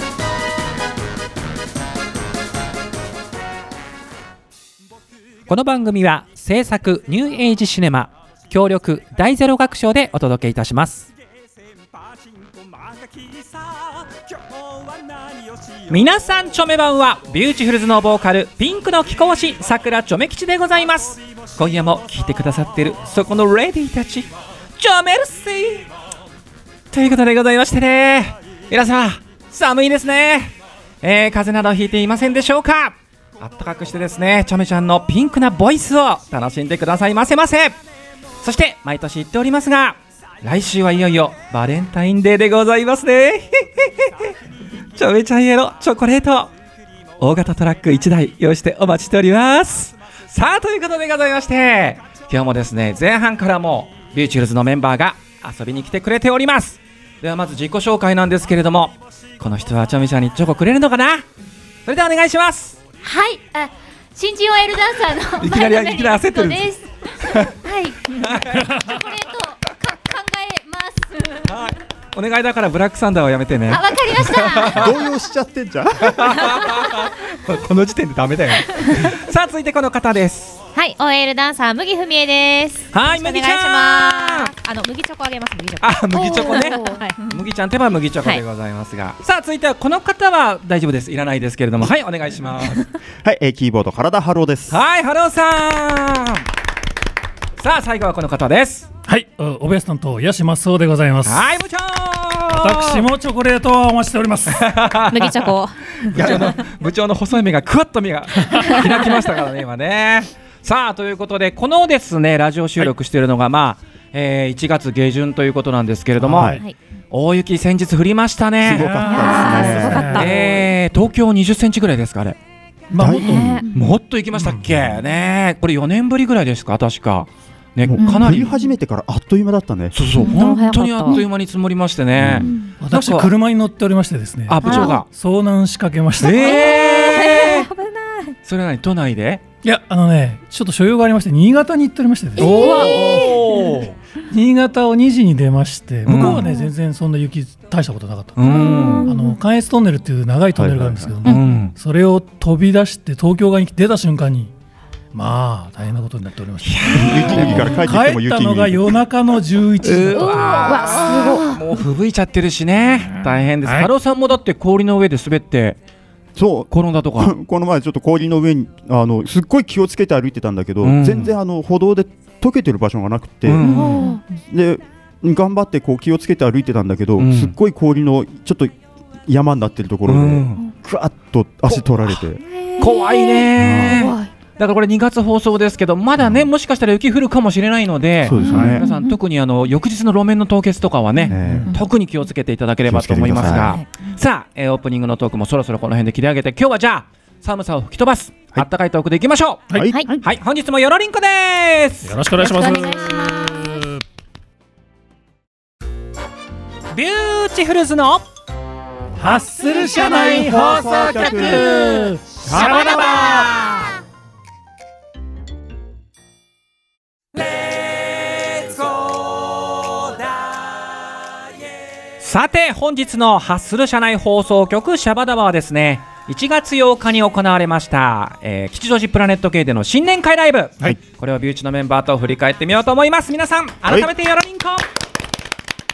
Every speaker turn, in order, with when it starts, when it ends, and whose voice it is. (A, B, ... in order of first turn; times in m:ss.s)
0:05.5-0:11.1 A
0:15.9-0:25.9 A
0:26.9-0:37.8 A
0:38.4-0:44.3 A
0:44.9-0:46.5 A
0:47.2-1:01.2 A
1:01.8-1:02.8 A
1:03.0-1:11.5 B
1:05.4-1:06.7 A
1:07.2-1:07.5 A
1:08.1-1:09.0 A
1:11.4-1:15.0 A
1:13.7-1:14.9 B
1:14.7-1:16.7 C
1:16.0-1:20.6 A
1:20.7-1:27.2 D
1:22.9-1:24.5 A
1:25.8-1:32.9 A
1:26.2-1:27.0 B
1:33.2-1:34.8 C
1:34.7-1:36.5 A
1:37.6-1:38.9 A
1:39.1-1:41.5 E
1:41.2-1:43.0 A
1:42.5-1:44.7 E
1:44.5-2:02.4 A
1:45.1-1:46.4 D
1:46.2-1:46.5 C
1:56.2-1:56.6 E
1:56.3-1:56.6 C
1:58.6-2:00.3 C
1:58.7-2:00.3 E
1:59.1-2:00.6 D
2:02.9-2:03.6 E
2:02.9-2:03.6 C
2:03.2-2:03.6 D
2:03.3-2:03.6 B
2:03.7-2:08.5 A
2:04.4-2:04.8 E
2:07.8-2:09.9 C
2:08.0-2:08.4 D
2:09.9-2:13.3 A
2:10.2-2:11.2 D
2:10.2-2:11.2 B
2:12.2-2:12.6 C
2:12.8-2:16.8 E
2:14.5-2:15.1 A
2:14.6-2:14.9 D
2:16.2-2:17.7 A
2:16.3-2:18.4 D
2:18.4-2:19.4 A
2:19.6-2:34.5 E
2:22.4-2:23.9 A
2:22.4-2:23.5 D
2:26.0-2:26.5 A
2:26.2-2:26.7 D
2:28.4-2:29.1 A
2:28.4-2:29.2 D
2:28.6-2:29.1 B
2:30.5-2:31.1 C
2:31.2-2:31.7 A
2:35.1-2:40.8 E
2:36.6-2:37.8 A
2:36.9-2:39.0 C
2:39.8-2:45.8 A
2:40.2-2:41.6 D
2:40.6-2:41.6 B
2:43.6-2:43.9 E
2:46.3-2:53.7 C
2:46.7-2:47.3 A
2:50.8-2:51.3 A
2:53.4-2:54.1 A
2:53.6-2:54.2 D
2:53.6-2:54.2 B
2:54.4-2:58.7 C
2:57.2-2:57.5 A
2:59.2-3:02.4 C
3:00.1-3:00.6 A
3:02.5-3:03.5 D
3:02.8-3:19.6 A
3:03.6-3:04.0 C
3:03.8-3:04.3 B
3:06.2-3:06.4 C
3:08.2-3:08.8 C
3:08.3-3:09.2 D
3:08.5-3:08.8 E
3:11.3-3:11.7 C
3:11.4-3:11.7 E
3:12.8-3:13.8 C
3:19.7-3:20.2 C
3:19.9-3:20.2 D
3:20.2-3:22.6 A
3:22.0-3:24.0 E
3:22.4-3:23.7 D
3:26.9-3:28.3 A
3:29.2-3:33.4 E
3:29.8-3:33.9 A
3:30.2-3:31.8 C
3:32.4-3:33.5 C
3:42.2-3:54.8 A
3:53.8-3:54.1 C